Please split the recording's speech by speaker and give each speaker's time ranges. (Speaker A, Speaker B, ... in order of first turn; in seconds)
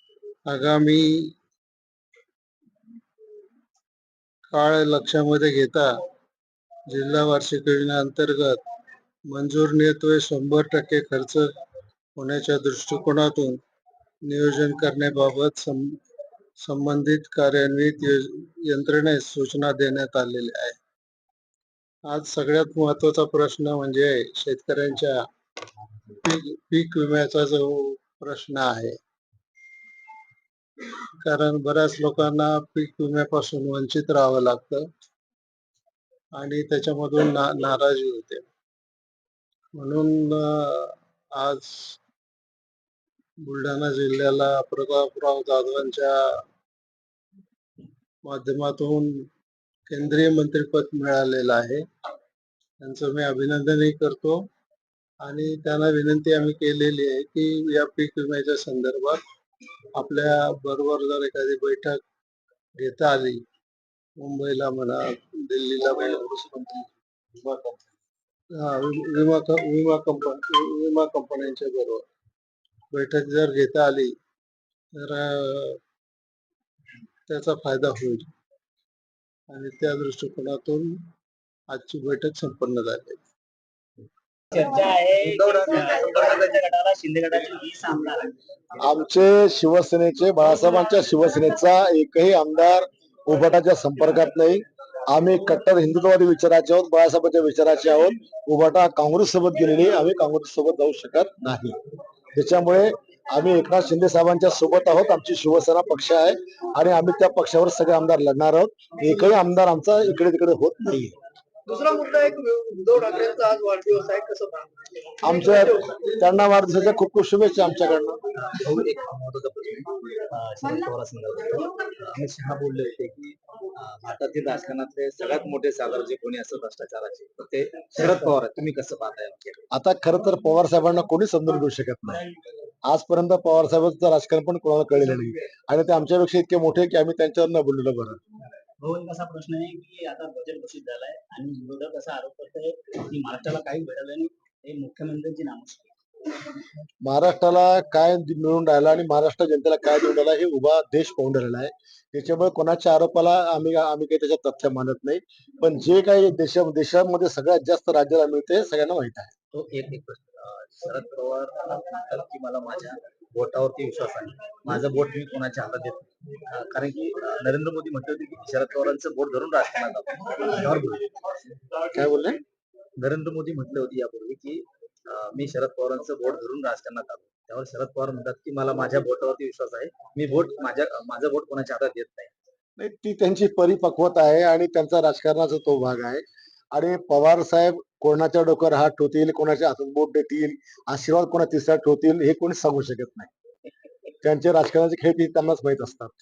Speaker A: 0.5-1.4, 4.5-6.0, 6.9-8.6, 9.3-11.5, 12.2-13.6, 14.2-16.0, 16.6-20.8, 22.1-25.3, 26.1-29.0, 31.2-34.9, 36.4-38.5, 39.8-42.0, 43.4-46.4, 48.2-49.3, 49.9-51.9, 52.8-54.5, 55.2-59.2, 60.0-62.0, 62.8-63.4, 64.2-66.2, 68.6-72.0, 72.9-74.2, 74.9-75.8, 77.3-78.3, 79.5-81.0, 81.7-83.2
Speaker B: 66.0-67.9, 88.8-101.8, 102.3-111.2, 115.2-118.2, 129.7-132.2, 132.8-138.2, 147.0-159.3, 171.9-172.4, 182.8-193.3, 194.2-196.1
Speaker C: 84.5-88.4, 118.4-129.6, 138.8-145.9, 159.5-171.0, 173.0-182.3
Speaker D: 111.7-114.7